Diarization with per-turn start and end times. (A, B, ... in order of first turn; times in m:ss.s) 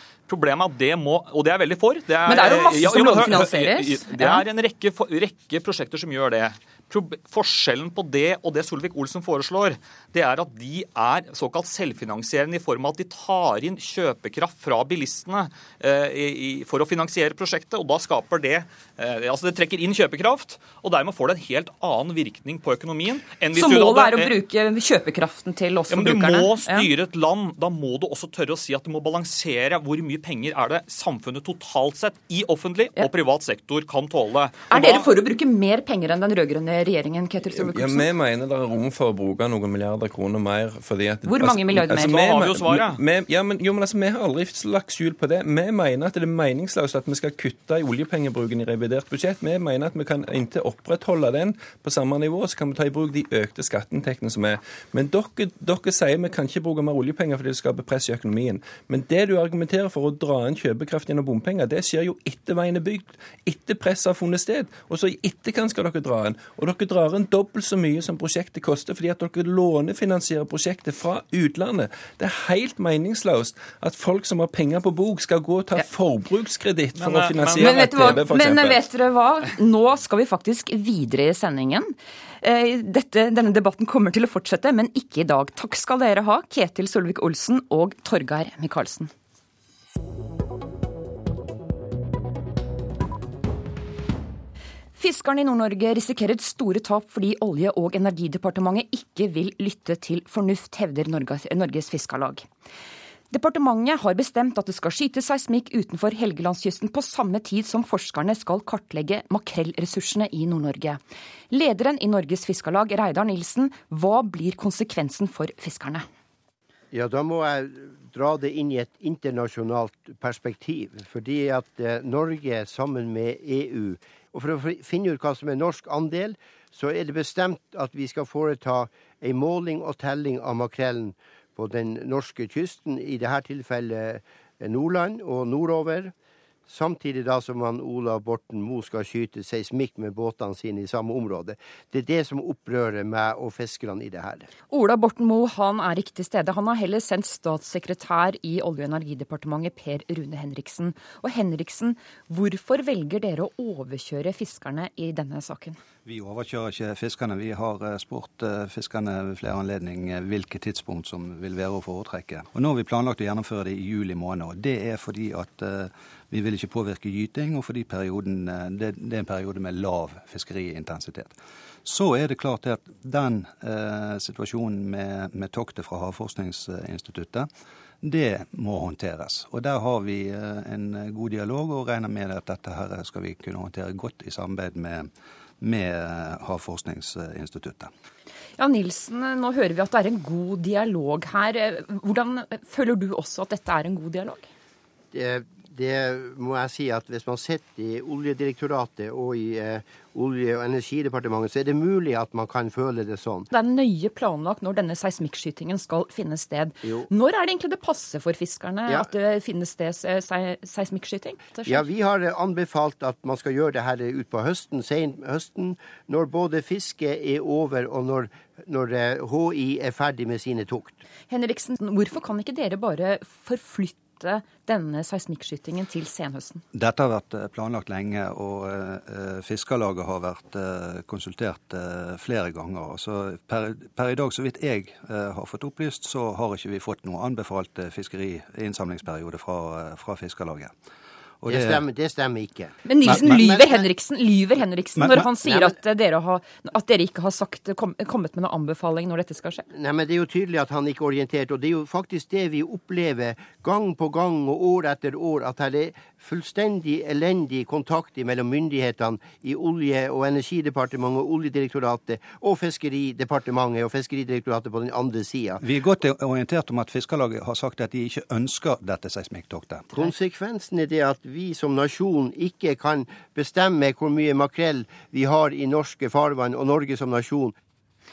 0:00.3-0:24.3 A
0:02.2-0:04.4 B
0:23.5-0:26.9 B
0:25.9-0:35.1 A
0:34.7-0:38.1 B
0:37.5-1:18.8 C
0:41.2-0:42.2 B
0:42.1-0:43.0 A
1:17.0-1:18.2 A
1:17.6-1:21.9 B
1:22.4-1:29.1 B
1:35.0-1:42.4 B
1:43.3-1:51.0 B
1:51.5-1:56.0 B
1:56.9-2:16.1 D
2:16.7-2:24.5 D
2:24.7-2:35.8 B
2:36.0-2:57.5 E
2:58.0-3:05.1 E
3:05.6-3:07.9 E
3:08.6-3:14.4 B
3:15.1-3:23.5 D
3:23.5-3:31.8 B
3:26.8-3:27.1 D
3:31.7-3:41.0 D
3:41.3-3:46.6 B
3:46.7-4:00.7 E
4:01.4-4:01.8 E
4:01.5-4:03.8 D
4:02.8-4:09.6 B
4:03.0-4:03.4 E
4:05.0-4:05.3 E
4:09.7-4:25.6 D
4:25.6-4:29.9 E
4:29.9-4:37.5 D